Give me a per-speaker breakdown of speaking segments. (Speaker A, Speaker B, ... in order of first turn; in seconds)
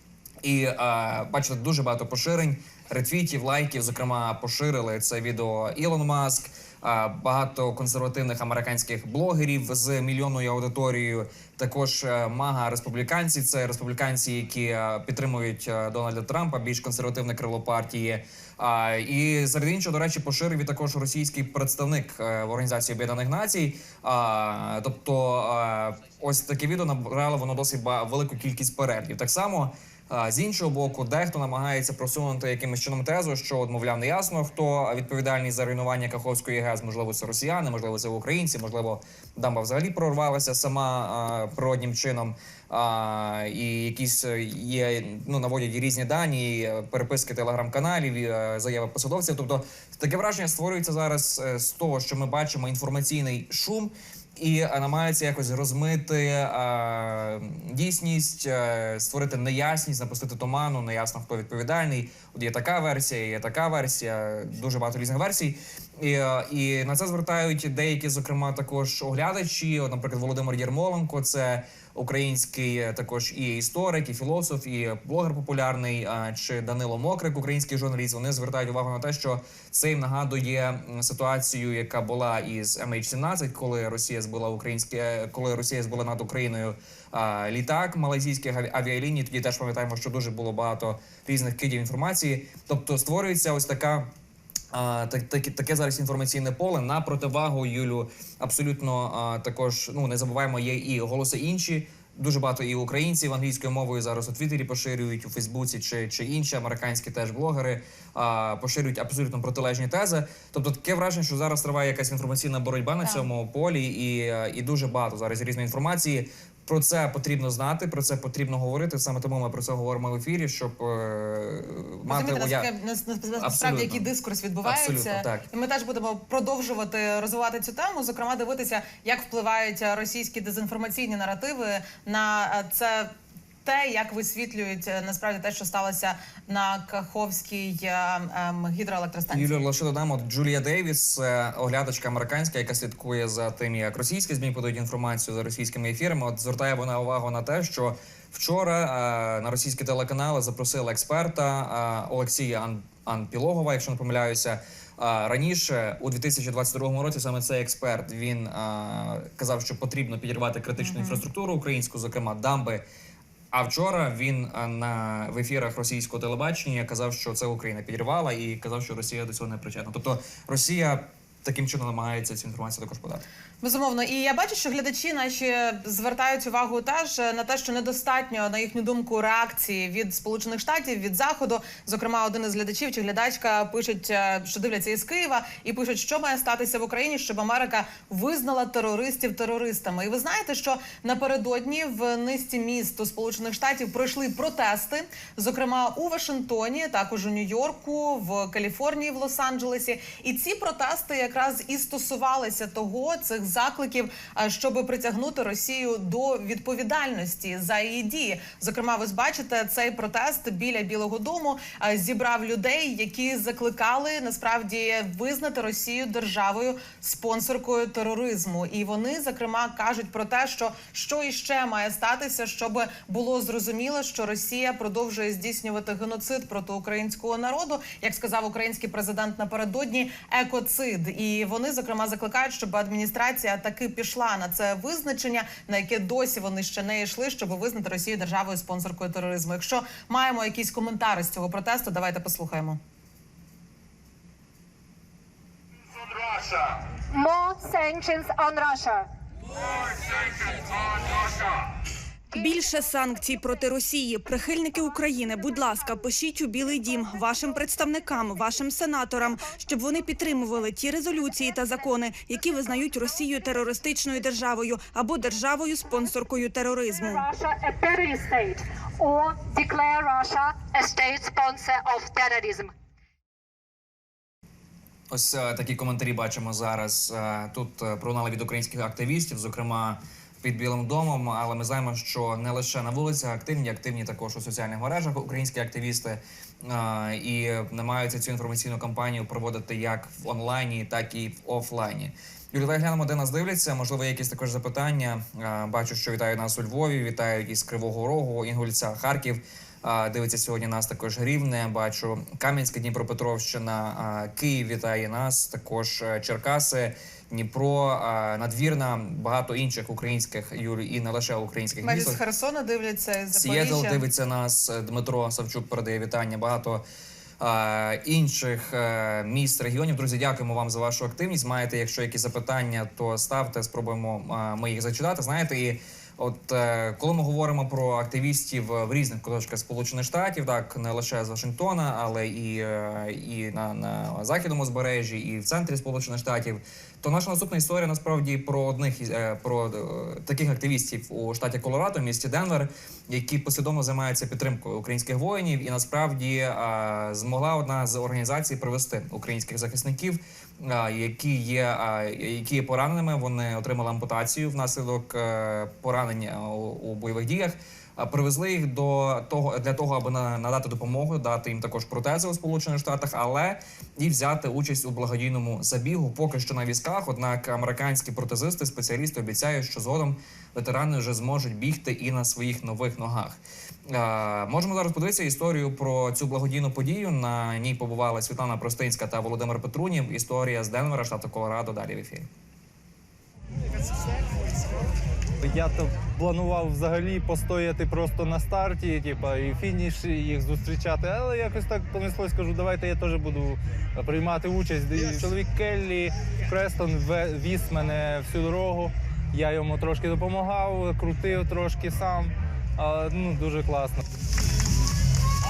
Speaker A: 0.4-94.1, 94.7-122.7, 123.4-124.1, 124.6-125.5, 139.3-162.8, 163.5-173.2, 275.1-312.2, 313.3-316.8, 317.4-373.4, 373.9-382.3
Speaker B: 122.1-133.1, 133.7-139.6, 160.8-161.2, 173.6-242.8, 311.8-314.0
Speaker C: 247.1-249.1, 267.0-272.7
Speaker D: 252.3-267.2
Speaker E: 385.4-404.0